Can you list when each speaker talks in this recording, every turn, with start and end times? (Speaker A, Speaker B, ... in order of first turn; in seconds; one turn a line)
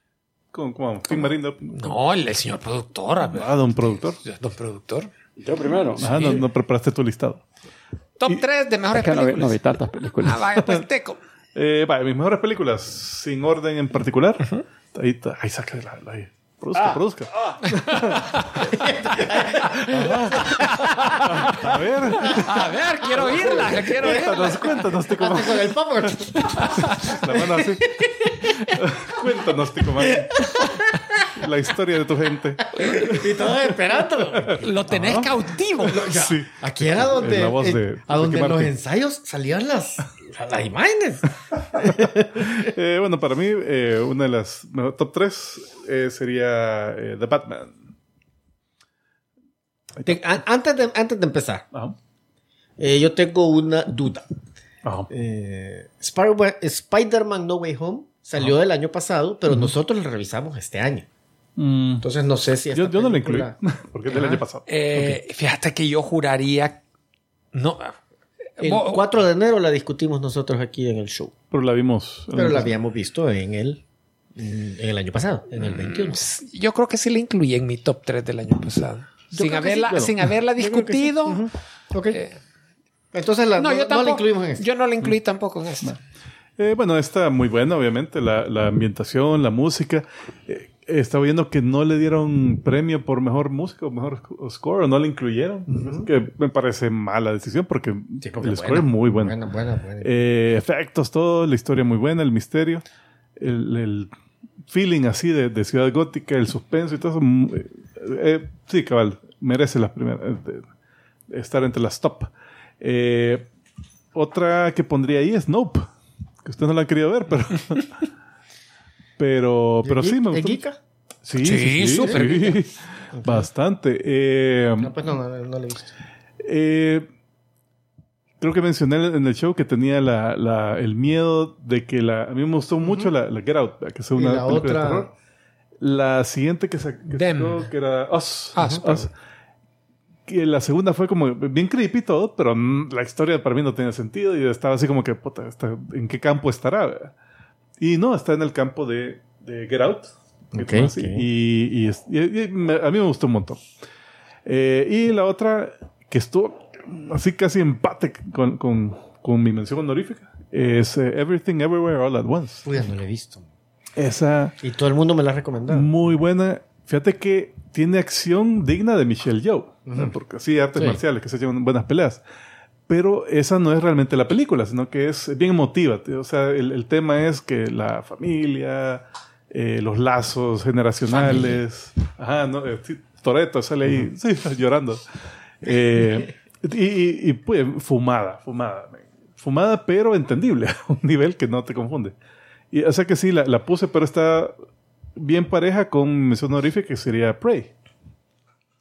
Speaker A: 0.5-1.9
Speaker B: 1.7-5.1
Speaker A: 3.3-4.2
Speaker C: 5.4-6.4
Speaker A: 6.0-7.4
Speaker B: 6.0-6.5
Speaker B: 8.2-9.6
Speaker C: 8.9-10.6
Speaker B: 10.2-11.2
Speaker A: 11.5-18.8
Speaker B: 17.7-18.6
Speaker D: 18.6-21.6
Speaker A: 19.6-20.6
Speaker A: 21.2-35.4
Speaker B: 22.2-24.9
Speaker D: 23.1-28.8
Speaker B: 26.4-27.1
Speaker D: 30.0-31.0
Speaker D: 32.7-35.3
Speaker B: 34.5-36.1
Speaker D: 35.8-42.7
Speaker A: 36.0-38.7
Speaker A: 41.7-47.8
Speaker D: 50.0-51.6
Speaker D: 52.8-54.2
Speaker D: 55.1-61.1
Speaker A: 61.6-62.0
Speaker D: 62.0-63.5
Speaker A: 62.7-65.2
Speaker D: 64.1-64.4
Speaker B: 64.7-66.8
Speaker B: 67.5-68.0
Speaker B: 68.6-69.1
Speaker D: 68.6-71.3
Speaker A: 71.5-72.7
Speaker D: 72.3-73.8
Speaker D: 74.3-76.2
Speaker B: 75.6-81.5
Speaker D: 79.3-82.2
Speaker B: 82.1-82.4
Speaker D: 83.1-84.6
Speaker B: 83.6-86.0
Speaker A: 86.6-99.3
Speaker D: 95.7-96.1
Speaker D: 98.2-100.1
Speaker A: 100.0-102.8
Speaker A: 103.4-104.1
Speaker A: 104.7-110.6
Speaker A: 111.3-113.5
Speaker A: 114.1-115.9
Speaker A: 116.4-118.0
Speaker A: 119.2-120.6
Speaker D: 119.8-120.8
Speaker A: 121.2-125.0
Speaker B: 121.4-122.6
Speaker D: 123.1-123.5
Speaker D: 124.8-125.9
Speaker A: 126.4-127.1
Speaker A: 128.4-135.1
Speaker D: 132.8-133.1
Speaker D: 134.1-135.1
Speaker A: 135.8-139.1
Speaker B: 137.1-137.7
Speaker B: 138.5-139.1
Speaker A: 140.3-147.1
Speaker A: 147.8-153.6
Speaker D: 150.5-151.2
Speaker A: 154.4-162.6
Speaker D: 162.6-163.4
Speaker A: 163.9-164.5
Speaker D: 164.6-165.9
Speaker A: 165.7-172.2
Speaker D: 169.9-170.1
Speaker A: 172.9-185.0
Speaker B: 181.2-181.5
Speaker A: 185.6-192.1
Speaker A: 192.7-194.5
Speaker A: 195.2-197.7